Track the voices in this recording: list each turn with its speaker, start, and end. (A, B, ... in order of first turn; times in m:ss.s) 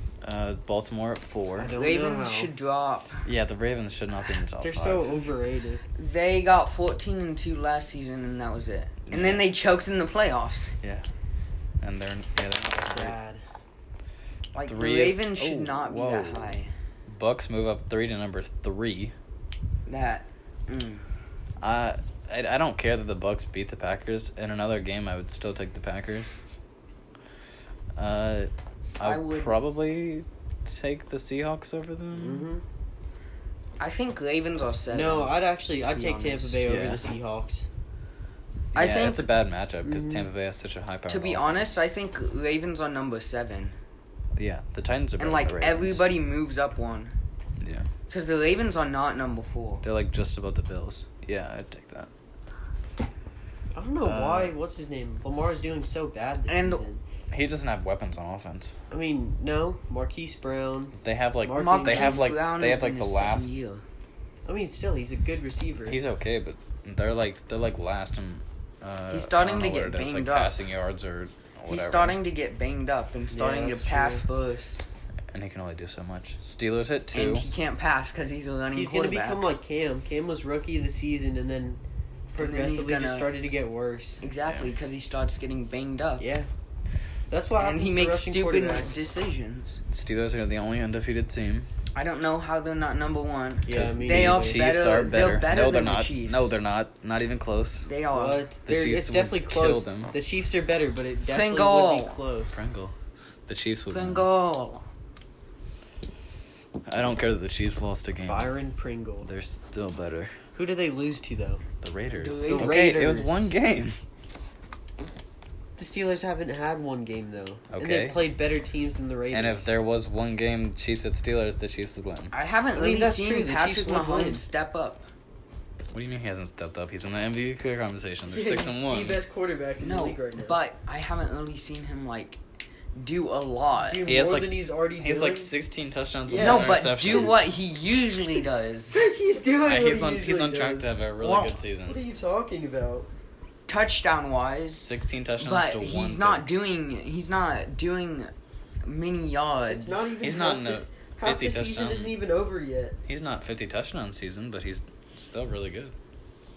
0:00.2-0:01.7 A
0:01.5-0:02.5 B
0:01.7-0:03.2 C
0:03.2-0:05.2 A
0:04.6-0:05.8 B
0:06.0-0:10.7 C
0:09.1-0:09.4 A
0:11.8-0:13.2 A
0:12.7-0:13.4 B
0:14.5-0:16.7 C
0:14.7-0:16.6 A
0:17.1-0:19.1 A
0:19.8-0:21.0 C
0:21.6-0:26.4 A
0:27.9-0:32.5 A
0:29.0-0:29.6 C
0:32.1-0:32.6 B
0:33.8-0:36.6 C
0:34.9-0:37.6 B
0:36.6-0:37.0 A
0:38.7-0:39.2 C
0:38.7-0:41.7 A
0:39.8-0:40.3 B
0:41.1-0:43.8 C
0:44.4-0:46.0 A
0:45.2-0:47.1 C
0:47.6-0:47.9 A
0:48.1-0:49.8 C
0:49.8-0:52.1 A
0:53.7-0:57.0 B
0:54.0-0:54.5 A
0:56.5-0:56.8 C
0:57.3-0:58.7 A
0:58.9-1:02.2 B
1:01.0-1:03.5 A
1:01.5-1:03.8 C
1:04.4-1:06.0 B
1:05.8-1:12.2 A
1:09.1-1:10.5 C
1:11.7-1:14.8 C
1:13.3-1:14.2 B
1:15.3-1:17.5 A
1:17.1-1:19.5 C
1:18.7-1:21.8 B
1:22.3-1:24.2 B
1:22.4-1:23.3 C
1:24.2-1:26.2 C
1:26.2-1:26.5 B
1:27.3-1:29.0 B
1:27.6-1:29.8 C
1:29.9-1:31.7 A
1:31.9-1:36.5 C
1:33.6-1:34.7 B
1:33.7-1:37.9 A
1:37.8-1:38.4 C
1:38.1-1:42.6 B
1:38.6-1:40.1 A
1:41.3-1:42.2 C
1:42.5-1:42.9 A
1:43.5-1:44.3 A
1:43.9-1:44.8 C
1:46.9-1:48.5 A
1:48.3-1:49.3 B
1:49.2-1:50.4 A
1:50.5-1:51.6 B
1:51.8-1:54.0 A
1:52.2-1:53.0 C
1:52.4-1:53.5 B
1:55.8-1:59.7 B
1:57.7-1:58.2 A
1:59.3-2:02.3 A
2:02.3-2:05.0 C
2:02.7-2:04.4 B
2:05.9-2:09.2 A
2:08.3-2:10.6 B
2:09.8-2:12.4 C
2:12.9-2:14.0 C
2:13.8-2:15.5 B
2:14.0-2:17.4 A
2:16.2-2:17.3 B
2:16.4-2:19.0 C
2:18.9-2:20.9 B
2:19.6-2:22.0 A
2:21.2-2:21.5 C
2:21.8-2:23.1 B
2:23.7-2:28.3 C
2:24.8-2:26.5 A
2:28.8-2:30.1 C
2:29.7-2:33.0 B
2:30.2-2:32.1 A
2:33.1-2:35.9 A